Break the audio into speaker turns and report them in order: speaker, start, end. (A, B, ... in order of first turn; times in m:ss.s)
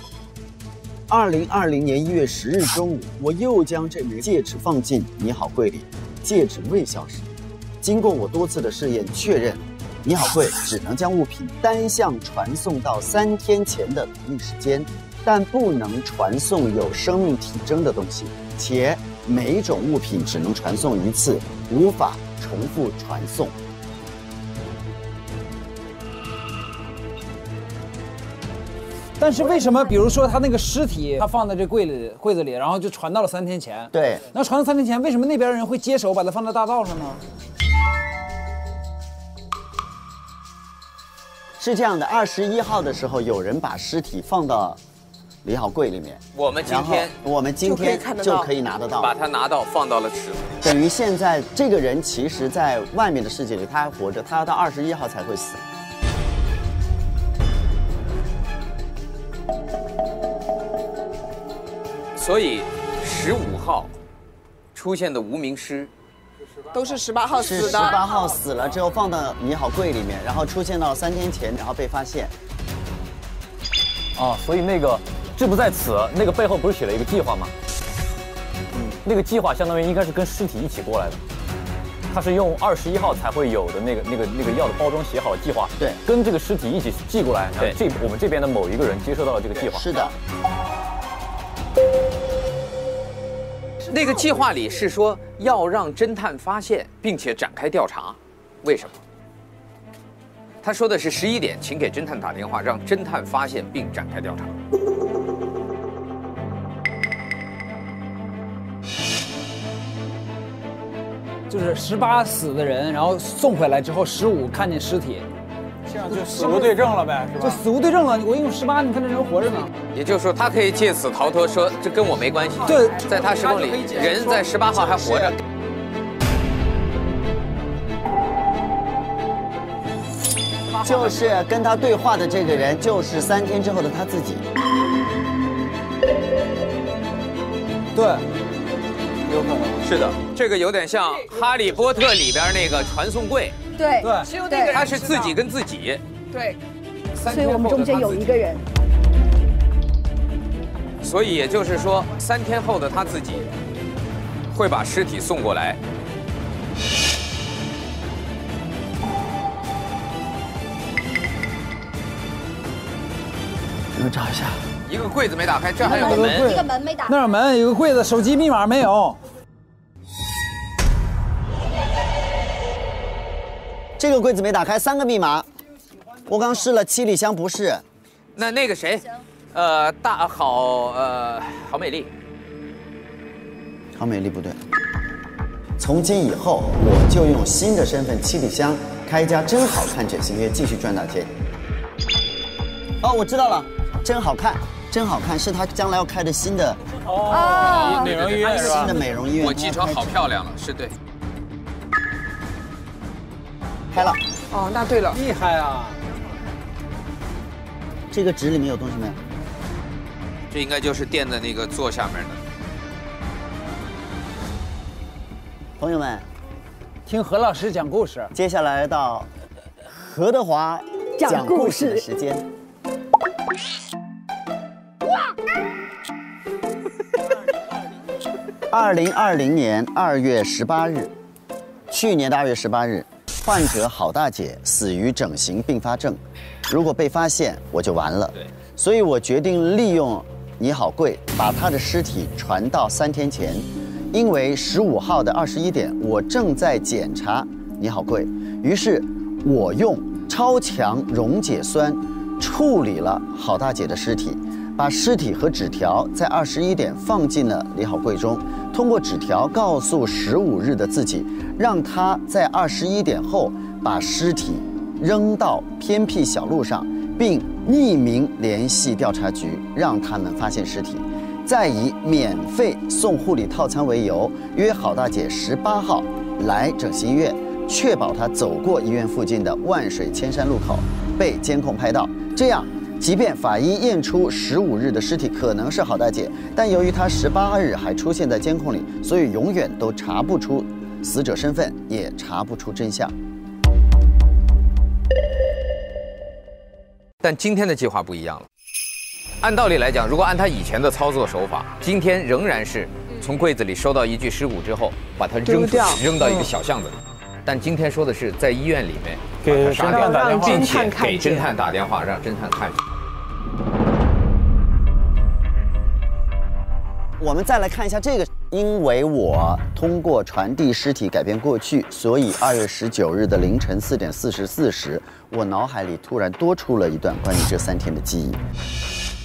0:01.1-0:07.3 A
0:07.8-0:23.5 A
0:29.2-0:37.2 B
0:33.9-0:34.3 A
0:41.6-0:44.8 A
0:45.4-0:49.2 A
0:46.4-0:47.1 C
0:47.6-0:48.5 D
0:49.0-0:50.5 C
0:50.6-0:55.6 A
1:02.2-1:03.9 C
1:04.8-1:05.9 C
1:06.7-1:08.0 D
1:07.4-1:12.3 A
1:14.2-1:17.5 E
1:18.7-1:19.0 A
1:19.0-1:21.2 E
1:22.1-1:29.9 E
1:29.7-1:30.1 A
1:33.9-1:39.0 C
1:40.6-1:44.5 C
1:51.5-1:55.3 B
1:55.9-1:57.6 F
1:56.0-1:59.7 B
1:59.9-2:05.4 C
2:02.6-2:04.0 B
2:04.1-2:04.4 D
2:10.8-2:14.4 A
2:18.0-2:18.2 B
2:19.3-2:19.8 B
2:19.8-2:23.6 C
2:23.8-2:24.8 G
2:24.0-2:24.3 B
2:24.2-2:25.4 D
2:24.7-2:26.0 C
2:26.3-2:26.6 D
2:27.2-2:28.3 C
2:27.3-2:28.7 G
2:31.0-2:33.5 C
2:34.5-2:35.8 C
2:44.0-2:44.6 A
2:44.9-2:46.6 C
2:45.8-2:49.2 B
2:45.8-2:47.2 G
2:54.0-2:55.5 A
2:56.3-2:57.8 A
2:58.4-3:02.1 C
3:04.0-3:04.6 A
3:05.8-3:11.3 A
3:13.0-3:16.8 A
3:17.1-3:19.0 F
3:17.3-3:18.1 G
3:17.9-3:18.7 C
3:18.5-3:19.8 A
3:19.4-3:21.0 C
3:23.9-3:24.2 A
3:24.5-3:25.2 D
3:25.1-3:26.0 B
3:28.1-3:29.2 A
3:30.5-3:32.4 C
3:35.8-3:36.3 A
3:37.1-3:38.3 B
3:38.3-3:39.3 A
3:39.9-3:42.5 A
3:41.2-3:42.0 G
3:48.7-3:51.1 A
3:51.9-4:53.2 A
4:57.2-4:58.5 C
4:59.4-5:12.8 C
5:05.4-5:06.0 D
5:09.4-5:10.9 F
5:09.9-5:11.5 D
5:17.2-5:28.4 A